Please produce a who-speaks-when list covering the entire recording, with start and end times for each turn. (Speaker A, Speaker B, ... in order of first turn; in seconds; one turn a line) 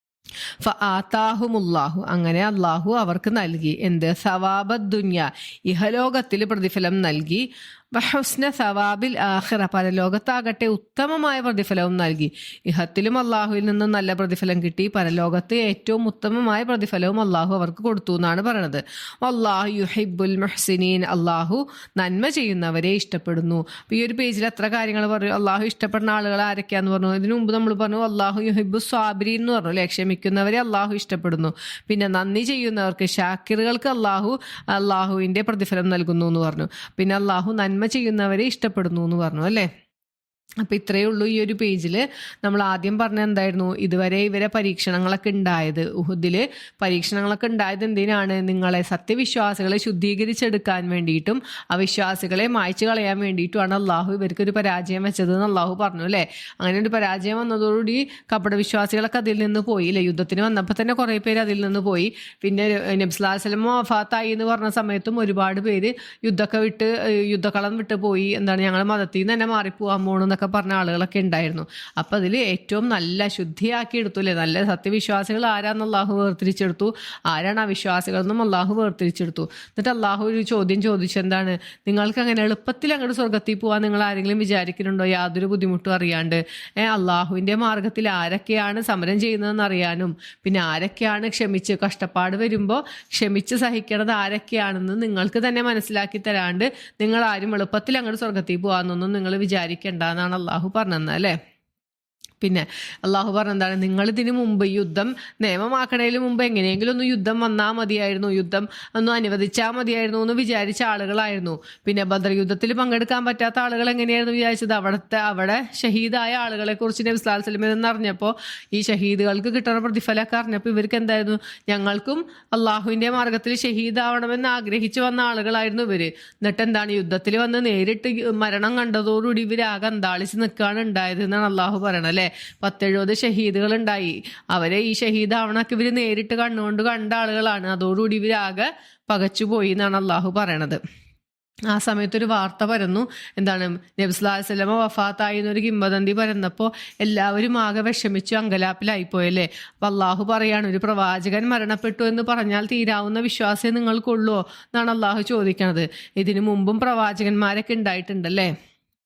Speaker A: 0.6-39.7
Speaker A: 40.6-101.4
Speaker A: 102.4-140.8
Speaker A: 141.7-158.5